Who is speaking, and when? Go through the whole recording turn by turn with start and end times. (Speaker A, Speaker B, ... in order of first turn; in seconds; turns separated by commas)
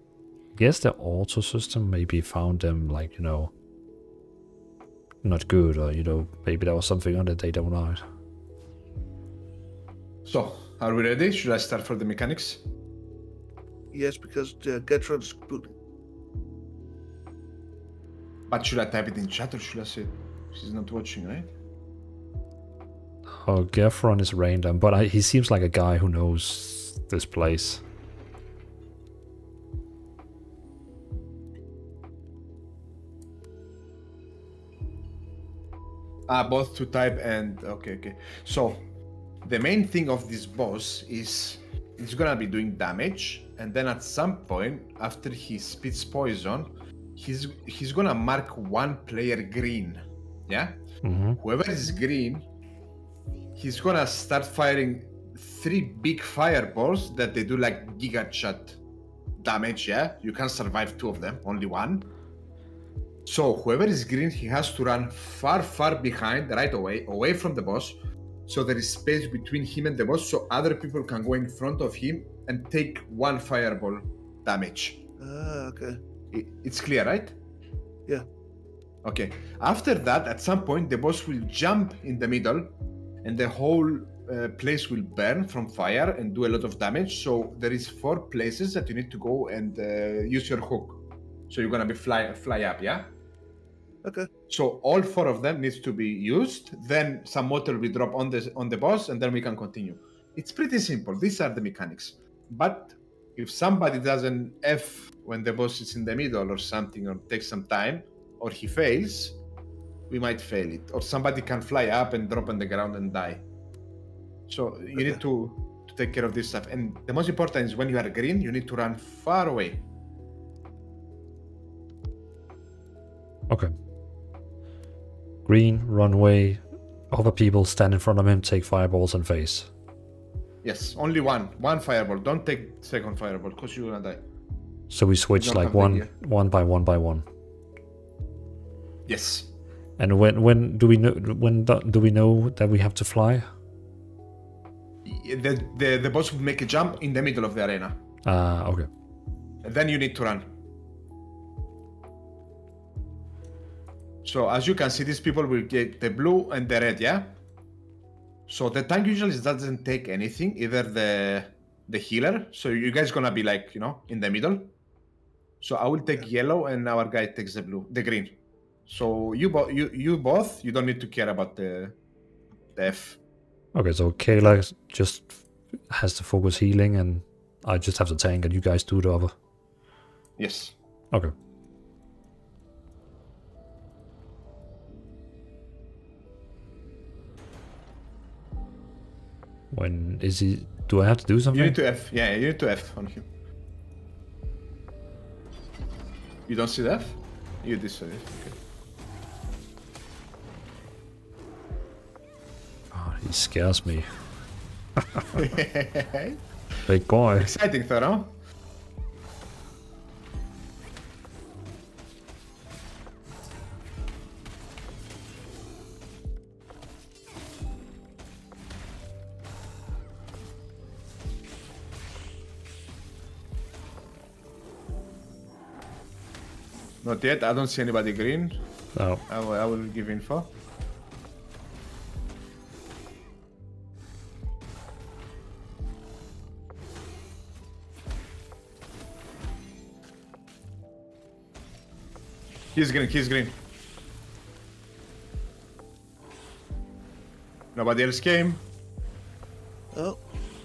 Speaker A: 0.6-3.5, Speaker A: 5.2-8.0, Speaker B: 10.2-12.6, Speaker C: 13.9-15.8, Speaker B: 18.5-21.5, Speaker A: 23.3-27.8, Speaker B: 36.3-38.9, Speaker B: 39.4-50.8, Speaker A: 51.0-51.4, Speaker B: 51.4-52.5, Speaker B: 53.6-58.8, Speaker B: 59.4-62.1, Speaker B: 63.3-75.1, Speaker C: 75.2-76.0, Speaker B: 76.3-77.4, Speaker B: 79.0-93.1, Speaker C: 94.0-94.3, Speaker B: 94.5-109.4, Speaker B: 110.1-113.4, Speaker B: 114.5-119.8, Speaker A: 123.5-123.7, Speaker A: 125.5-129.7, Speaker B: 130.6-134.2, Speaker A: 134.9-137.2, Speaker B: 135.4-136.1, Speaker B: 139.1-139.5, Speaker A: 140.0-143.5, Speaker B: 145.1-148.0, Speaker A: 148.2-148.9, Speaker B: 149.6-150.5, Speaker B: 154.2-157.4, Speaker B: 158.5-164.8, Speaker B: 165.6-172.0, Speaker B: 172.8-173.2, Speaker A: 173.7-179.3, Speaker B: 180.4-180.8, Speaker A: 189.7-191.8, Speaker B: 191.5-193.3, Speaker B: 196.5-198.6, Speaker A: 202.9-204.1, Speaker A: 205.0-205.5, Speaker B: 205.3-206.4, Speaker A: 206.9-207.5, Speaker B: 207.4-208.4, Speaker B: 227.0-228.6, Speaker A: 228.9-229.2, Speaker B: 229.3-230.5, Speaker B: 242.8-243.6, Speaker B: 247.8-248.6, Speaker C: 249.9-250.2